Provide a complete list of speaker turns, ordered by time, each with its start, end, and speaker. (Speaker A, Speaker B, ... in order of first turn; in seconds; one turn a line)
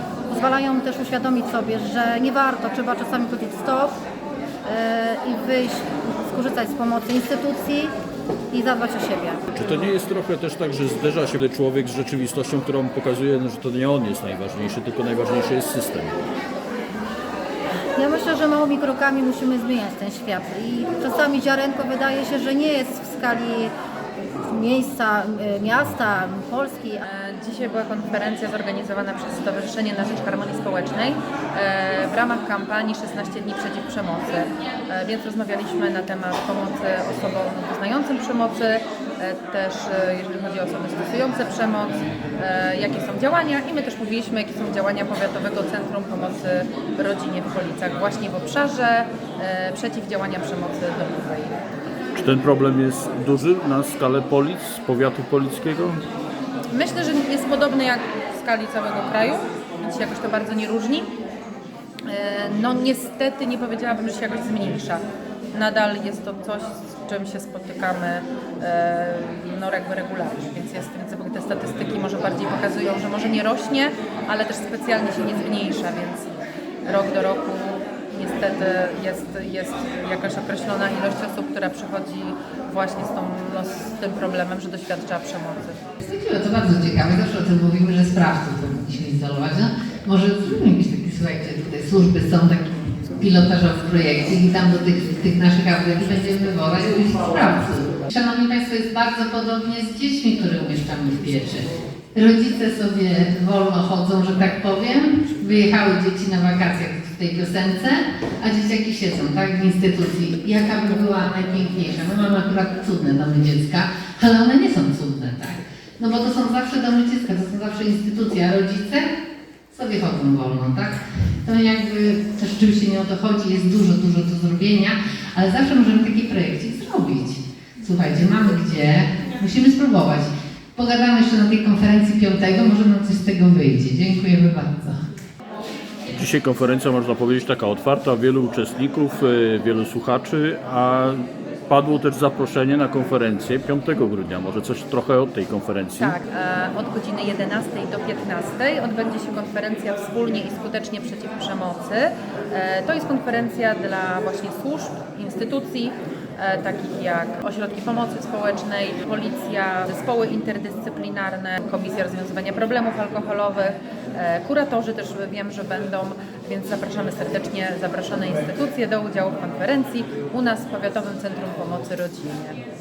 Speaker A: 0.3-4.0
Speaker A: 4.6-7.9
Speaker A: 8.5-9.4
Speaker B: 9.5-16.2
Speaker A: 17.9-23.7
Speaker A: 24.4-27.0
Speaker C: 27.0-51.6
Speaker B: 52.1-56.1
Speaker C: 56.7-61.1
Speaker C: 62.0-85.8
Speaker D: 86.0-119.2
Speaker D: 119.7-135.0
Speaker B: 136.1-146.2
Speaker C: 146.0-172.6